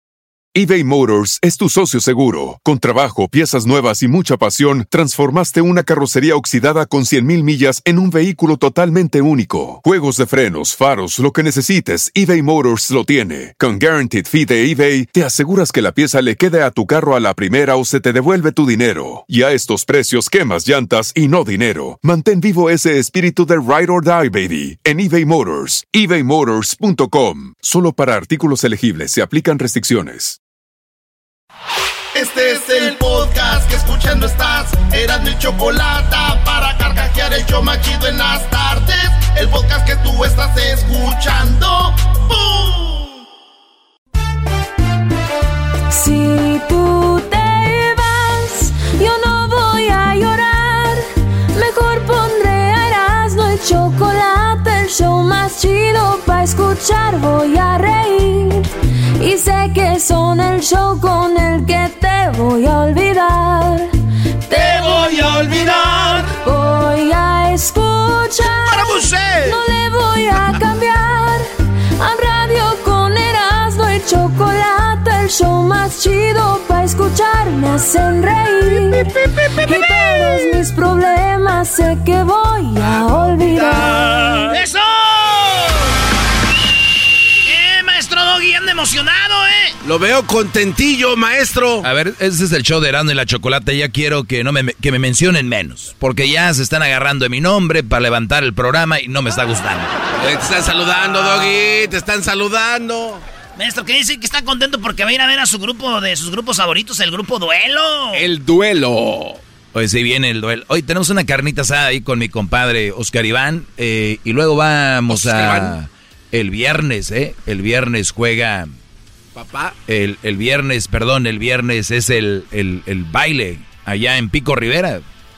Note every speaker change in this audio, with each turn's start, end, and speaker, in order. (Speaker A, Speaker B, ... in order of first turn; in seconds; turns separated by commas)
Speaker A: 0.6-30.4, Speaker B: 32.1-43.1, Speaker C: 45.9-63.9, Speaker C: 64.4-71.5, Speaker D: 64.6-66.2, Speaker D: 68.7-69.6, Speaker C: 72.0-84.6, Speaker D: 84.5-85.8, Speaker D: 87.4-89.8, Speaker E: 89.8-91.9, Speaker F: 91.8-99.9, Speaker E: 100.2-103.2, Speaker D: 103.6-108.3, Speaker E: 108.1-109.4, Speaker F: 109.7-118.7, Speaker E: 115.1-115.8, Speaker E: 119.3-119.8, Speaker F: 119.9-125.0